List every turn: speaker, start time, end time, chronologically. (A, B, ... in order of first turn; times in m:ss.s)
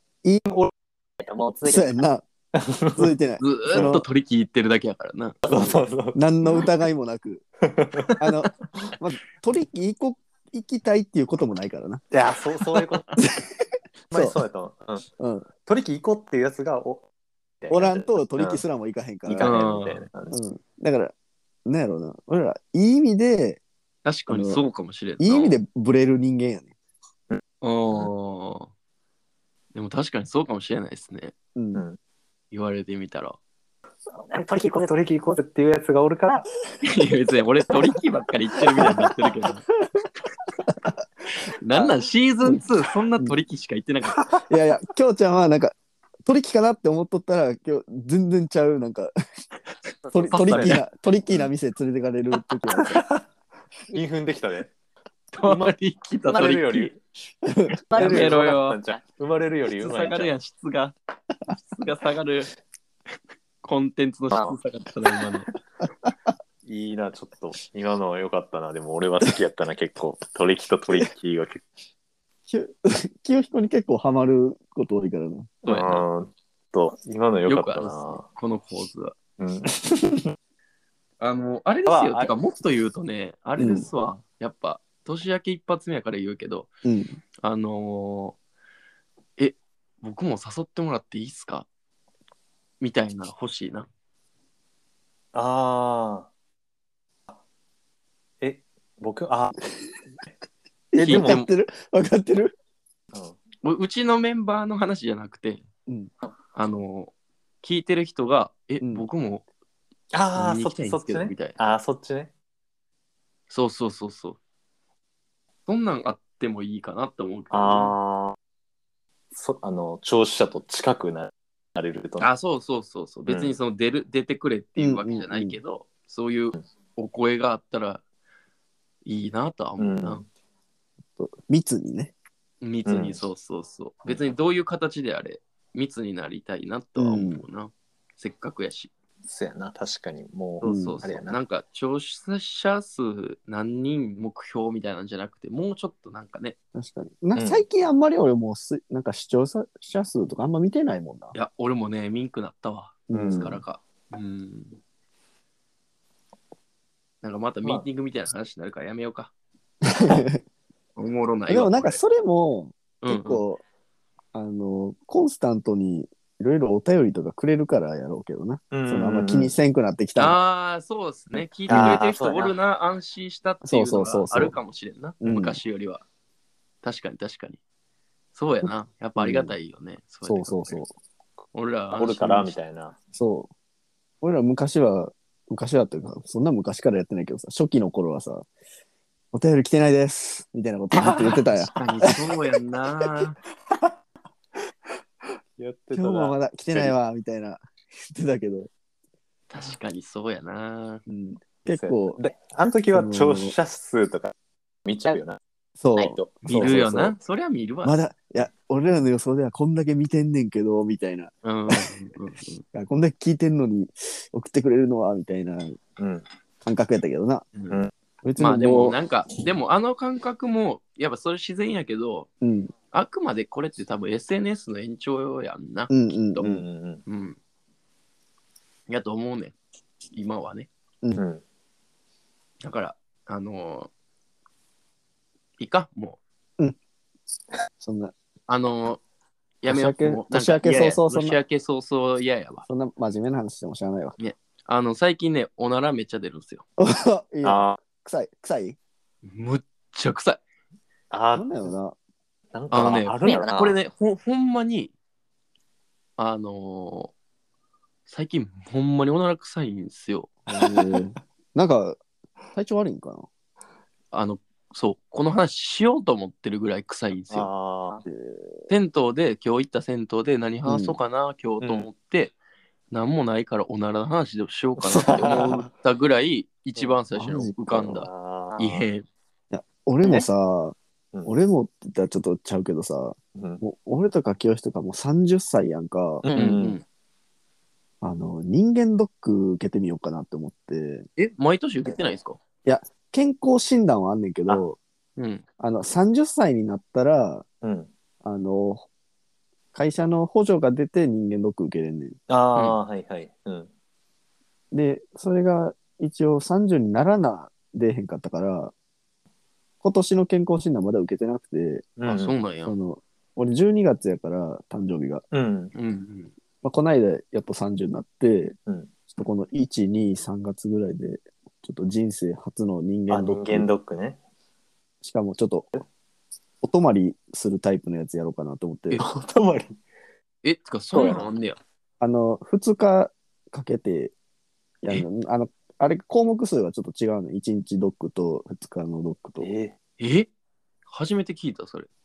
0:01.2-0:01.8 A
0:01.6-0:02.2 B
0:02.6-0:03.1 A
0:03.0-0:04.0 B
0:03.4-0:05.4 C
0:05.4-0:06.6 A
0:05.5-0:07.4 B
0:07.6-0:08.2 A
0:08.2-0:12.0 B
0:12.1-0:13.1 A
0:13.2-0:13.5 B
0:14.1-0:15.0 A
0:15.2-0:15.5 B
0:15.7-0:17.1 A
0:17.6-0:18.6 A
0:17.7-0:19.5 B
0:19.3-0:20.4 A
0:19.4-0:20.0 C
0:20.3-0:21.1 B
0:21.7-0:23.6 B
0:24.0-0:25.6 C
0:24.3-0:24.6 B
0:25.2-0:26.7 B
0:27.6-0:28.7 C
0:29.7-0:31.3 C
0:31.6-0:31.8 B
0:32.5-0:33.4 C
0:34.2-0:36.5 A
0:36.8-0:39.6 C
0:40.7-0:41.0 B
0:41.5-0:44.2 C
0:44.5-0:49.1 B
0:50.1-0:50.8 A
0:50.1-0:53.0 B
0:50.3-0:50.8 C
0:52.9-0:53.2 A
0:53.9-0:54.7 A
0:55.3-0:56.9 C
0:55.4-0:55.7 A
0:56.3-0:57.0 A
0:57.4-0:58.3 B
0:57.9-0:58.8 C
0:57.9-1:00.3 A
0:59.8-1:01.0 C
1:01.7-1:02.5 C
1:03.6-1:05.5 C
1:06.6-1:11.6 A
1:12.5-1:15.5 B
1:15.6-1:16.0 C
1:15.6-1:18.2 A
1:17.5-1:19.2 C
1:19.4-1:20.4 A
1:21.2-1:26.7 C
1:21.9-1:22.3 A
1:23.6-1:23.9 B
1:26.8-1:27.2 B
1:27.4-1:28.4 C
1:29.4-1:31.7 C
1:32.8-1:33.9 C
1:35.3-1:36.3 A
1:38.4-1:39.6 A
1:40.9-1:42.5 B
1:41.0-1:41.4 A
1:41.0-1:41.5 C
1:43.6-1:45.6 C
1:46.5-1:49.4 C
1:48.8-1:49.1 B
1:50.1-1:52.3 A
1:50.4-1:51.6 C
1:53.5-1:54.4 C
1:55.7-1:57.9 C
1:57.5-1:58.4 A
1:59.3-2:02.3 A
2:02.2-2:08.0 C
2:03.3-2:03.6 A
2:04.8-2:05.6 B
2:09.0-2:10.2 C
2:09.8-2:10.3 A
2:11.2-2:12.1 B
2:12.6-2:18.9 C
2:12.9-2:13.2 A
2:17.0-2:17.4 B
2:19.2-2:21.4 A
2:20.6-2:26.6 C
2:20.6-2:21.0 B
2:26.8-2:31.4 B
2:27.4-2:27.6 A
2:31.3-2:34.8 C
2:33.1-2:33.6 B
2:33.1-2:33.6 A
2:37.2-2:39.3 C
2:39.8-2:40.4 B
2:41.0-2:42.0 C
2:41.5-2:43.6 B
2:43.0-2:43.4 C
2:44.3-2:50.4 B
2:48.7-2:49.6 A
2:50.2-2:56.0 C
2:51.7-2:52.6 A
2:51.7-2:52.0 B
2:53.6-2:54.6 B
2:55.2-2:55.6 B
2:56.8-2:57.6 C
2:58.3-3:00.8 C
2:59.2-2:59.5 B
3:00.2-3:00.9 B
3:01.5-3:02.5 C
3:01.9-3:03.0 A
3:03.1-3:03.5 B
3:04.2-3:08.5 B
3:09.3-3:11.7 B
3:11.0-3:12.1 A
3:11.0-3:13.4 C
3:15.6-3:17.0 A
3:15.9-3:18.7 B
3:19.5-3:21.0 C
3:21.1-3:22.2 B
3:21.7-3:24.3 A
3:22.9-3:23.5 B
3:24.9-3:25.4 A
3:25.8-3:27.1 B
3:26.0-3:27.1 A
3:26.5-3:28.0 C
3:27.8-3:31.8 B
3:31.4-3:32.6 C
3:32.7-3:35.8 B
3:36.0-3:36.2 A
3:36.6-3:37.5 B
3:37.6-3:37.8 C
3:38.2-3:39.0 B
3:38.4-3:42.3 C
3:42.4-3:42.7 B
3:42.9-3:46.4 C
3:45.9-3:46.6 B
3:46.4-3:47.0 A
3:47.1-3:47.4 C
3:48.9-3:49.6 C
3:50.1-3:50.7 C
3:51.2-3:51.4 A
3:52.6-3:53.9 C
3:55.6-3:56.2 C
3:57.8-3:58.1 B
3:58.5-3:59.0 C
3:59.6-4:02.6 C
3:59.7-4:01.4 B
4:02.7-4:04.2 B
4:04.2-4:06.6 C
4:06.8-4:08.8 B
4:07.4-4:07.8 A
4:09.2-4:10.4 C
4:11.1-4:11.5 A
4:11.3-4:12.0 B
4:12.5-4:13.8 A
4:12.7-4:14.9 C
4:16.2-4:17.1 C
4:18.1-4:20.3 C
4:20.5-4:22.0 B
4:22.5-4:23.3 B
4:24.1-4:27.5 C
4:27.3-4:28.0 A
4:28.0-4:28.7 B
4:28.7-4:32.3 C
4:30.6-4:31.0 B
4:31.6-4:31.9 A
4:32.9-4:39.1 C
4:34.9-4:35.6 A
4:37.2-4:37.6 B
4:37.7-4:38.8 A
4:39.5-4:46.3 B
4:43.4-4:43.6 A
4:46.2-4:46.8 A
4:46.3-4:46.8 C
4:48.0-4:51.1 B
4:51.2-4:52.4 C
4:52.6-4:54.8 B
4:55.2-4:55.4 C
4:55.6-4:57.5 B
4:57.6-4:57.9 A
4:58.2-4:58.9 B
4:59.7-5:02.2 B
5:02.3-5:03.7 A
5:04.7-5:08.7 B
5:09.8-5:11.9 B
5:12.0-5:12.3 A
5:12.1-5:12.7 C
5:12.6-5:15.2 B
5:15.3-5:15.7 A
5:15.8-5:16.3 C
5:16.6-5:18.6 B
5:19.1-5:23.7 B
5:23.1-5:24.2 A
5:25.0-5:25.7 B
5:26.6-5:29.0 B
5:29.0-5:29.8 A
5:30.4-5:31.6 C
5:30.9-5:31.3 A
5:32.0-5:34.1 B
5:34.8-5:39.5 B
5:39.4-5:39.8 A
5:40.0-5:40.3 C
5:40.9-5:41.9 C